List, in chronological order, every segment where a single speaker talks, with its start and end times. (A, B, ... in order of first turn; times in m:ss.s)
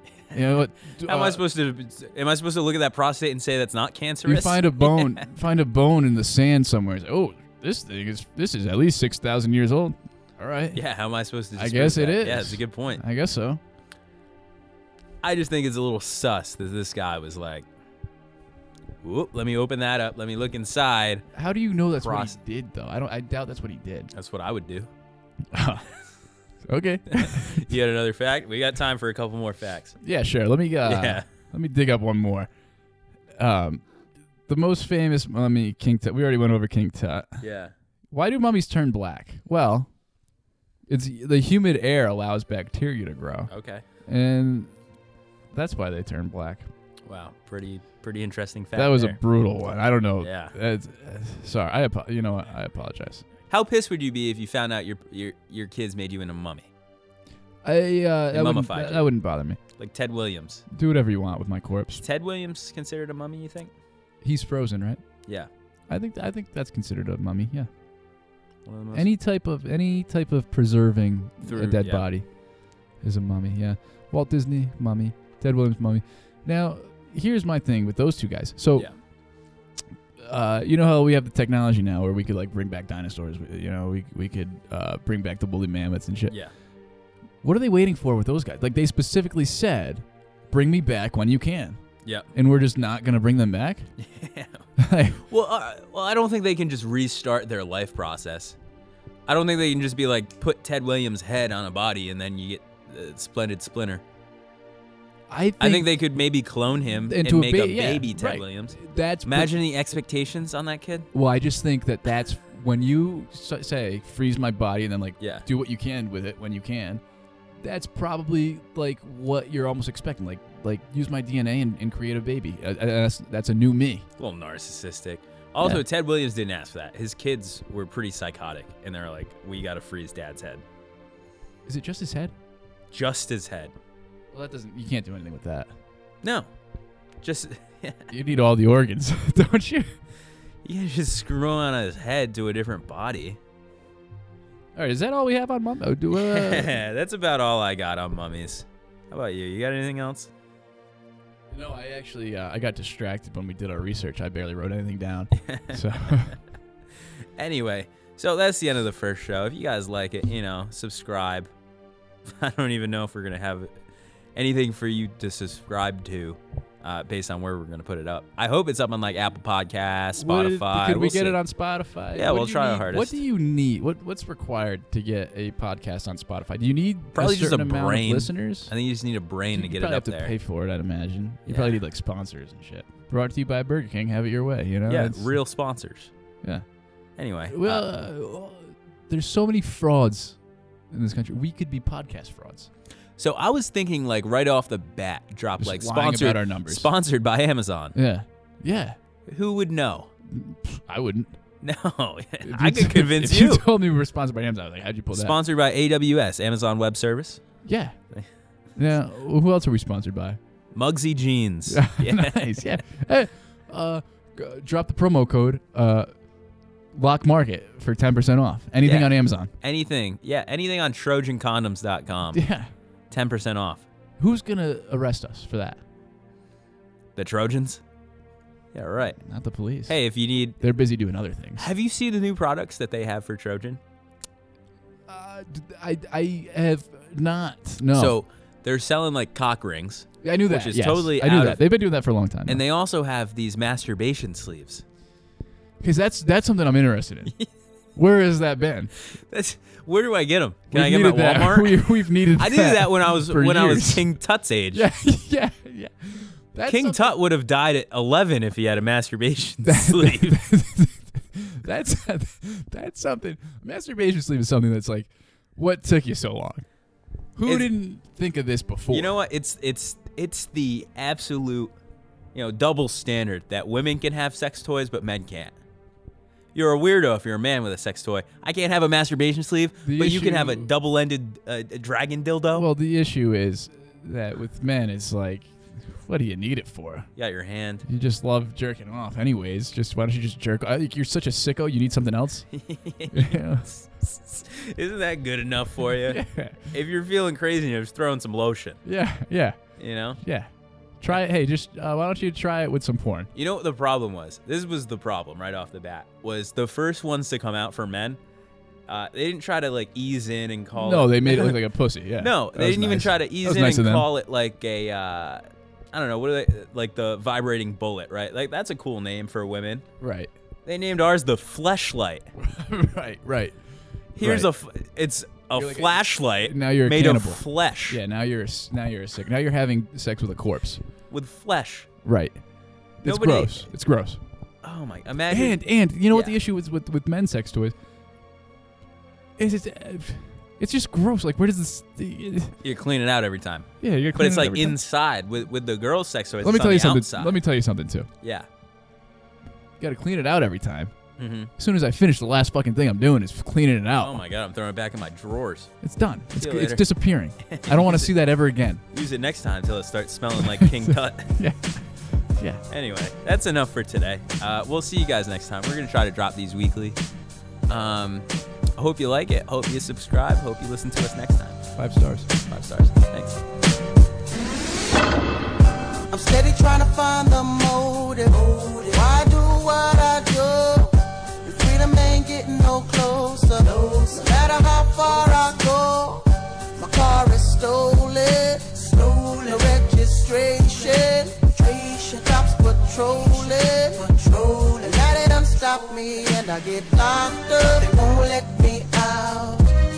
0:00.3-0:01.4 A
0:00.9-0:05.2 B
0:04.2-0:10.8 A
0:10.7-0:13.0 B
0:11.5-0:13.6 A
0:15.2-0:17.6 B
0:19.0-0:21.3 B
0:21.3-0:24.1 A
0:22.0-0:22.4 B
0:24.1-0:24.9 B
0:25.5-0:25.9 A
0:26.6-0:27.6 A
0:27.1-0:30.0 B
0:30.0-0:32.5 A
0:30.8-0:31.3 B
0:33.4-0:33.8 A
0:34.5-0:37.4 A
0:37.4-0:37.7 B
0:38.1-0:39.9 A
0:40.9-0:43.5 A
0:43.5-0:43.8 B
0:44.0-0:44.7 A
0:45.5-0:46.7 A
0:47.1-0:49.2 B
0:48.7-0:53.2 A
0:50.2-0:50.5 B
0:53.5-0:56.7 B
0:57.6-0:59.6 A
0:58.3-0:59.1 B
0:59.8-1:00.6 B
1:00.7-1:02.0 A
1:02.0-1:03.7 B
1:04.2-1:05.0 A
1:05.9-1:07.7 A
1:08.6-1:09.1 B
1:08.9-1:12.3 A
1:11.4-1:12.1 B
1:13.0-1:18.9 A
1:20.2-1:26.4 A
1:27.4-1:31.8 A
1:32.0-1:32.3 B
1:32.3-1:33.9 A
1:34.0-1:34.7 B
1:34.8-1:35.2 A
1:35.2-1:38.6 B
1:39.3-1:44.0 B
1:45.3-1:45.9 A
1:45.6-1:51.1 B
1:47.0-1:49.6 A
1:51.1-1:57.0 A
1:55.2-1:55.5 B
1:57.6-2:04.1 A
2:04.2-2:10.6 B
2:11.6-2:12.3 A
2:12.9-2:13.7 B
2:14.3-2:15.7 A
2:16.2-2:16.5 B
2:17.2-2:18.1 B
2:18.1-2:19.9 A
2:20.6-2:23.4 B
2:24.7-2:26.8 A
2:26.1-2:30.3 B
2:31.5-2:36.4 A
2:35.4-2:35.8 B
2:37.4-2:41.5 B
2:42.2-2:43.7 B
2:44.3-2:51.4 B
2:50.2-2:58.7 A
2:52.1-2:53.2 B
2:57.1-3:00.3 B
2:59.5-3:05.4 A
3:01.5-3:01.8 B
3:04.9-3:06.1 B
3:07.2-3:07.8 B
3:07.5-3:10.4 A
3:10.9-3:12.7 A
3:13.2-3:18.0 B
3:15.6-3:16.9 A
3:17.9-3:19.0 A
3:19.3-3:20.1 B
3:20.3-3:21.3 A
3:21.6-3:23.7 B
3:22.4-3:25.4 A
3:25.1-3:27.4 B
3:27.6-3:28.0 A
3:28.8-3:30.4 A
3:30.7-3:32.6 B
3:31.7-3:36.1 A
3:36.9-3:39.5 A
3:38.8-3:42.4 B
3:42.3-3:42.7 A
3:43.1-3:43.8 B
3:44.2-3:45.8 A
3:47.2-3:47.8 B
3:48.7-3:49.2 B
3:49.2-3:49.9 A
3:49.8-3:50.6 B
3:50.6-3:51.7 A
3:51.6-3:53.8 B
3:55.1-3:58.2 A
3:57.9-4:01.6 B
4:00.2-4:02.6 A
4:02.5-4:04.8 B
4:05.8-4:07.3 A
4:07.9-4:08.9 A
4:09.2-4:14.9 B
4:10.7-4:14.1 A
4:14.7-4:17.1 A
4:16.6-4:20.4 B
4:19.6-4:26.6 A
4:27.4-4:29.1 A
4:27.4-4:27.7 B
4:28.9-4:31.7 B
4:32.3-4:35.6 B
4:36.5-4:42.7 B
4:39.8-4:40.7 A
4:42.5-4:47.1 A
4:47.2-4:47.9 B
4:47.9-4:52.5 A
4:52.5-4:58.8 B
4:53.1-4:53.7 A
4:56.0-4:56.6 A
4:58.8-4:59.6 A
4:59.8-5:00.2 B
5:00.2-5:03.3 A
5:03.3-5:08.2 B
5:08.9-5:11.6 B
5:10.7-5:14.1 A
5:12.2-5:15.4 B
5:15.9-5:19.8 B
5:20.0-5:20.3 A
5:20.6-5:22.3 B
5:22.4-5:23.6 A
5:24.2-5:24.5 A
5:24.2-5:28.0 B
5:25.5-5:30.8 A
5:31.1-5:31.9 B
5:32.0-5:32.4 A
5:33.0-5:34.2 A
5:33.0-5:33.7 B
5:34.6-5:36.4 B
5:35.3-5:37.7 A
5:39.4-5:42.6 A
5:42.6-5:47.4 B
5:43.8-5:44.8 A
5:46.4-5:48.1 A
5:48.2-5:48.5 B
5:49.8-5:50.9 A
5:51.2-5:51.5 B
5:51.6-5:54.2 A
5:54.0-5:55.7 B
5:55.8-5:58.8 A
5:56.3-5:58.2 B
5:58.9-6:01.3 B
6:00.4-6:02.6 A
6:02.7-6:07.0 B
6:07.7-6:11.6 B
6:11.8-6:12.3 A
6:12.4-6:13.4 B
6:16.1-6:39.7 C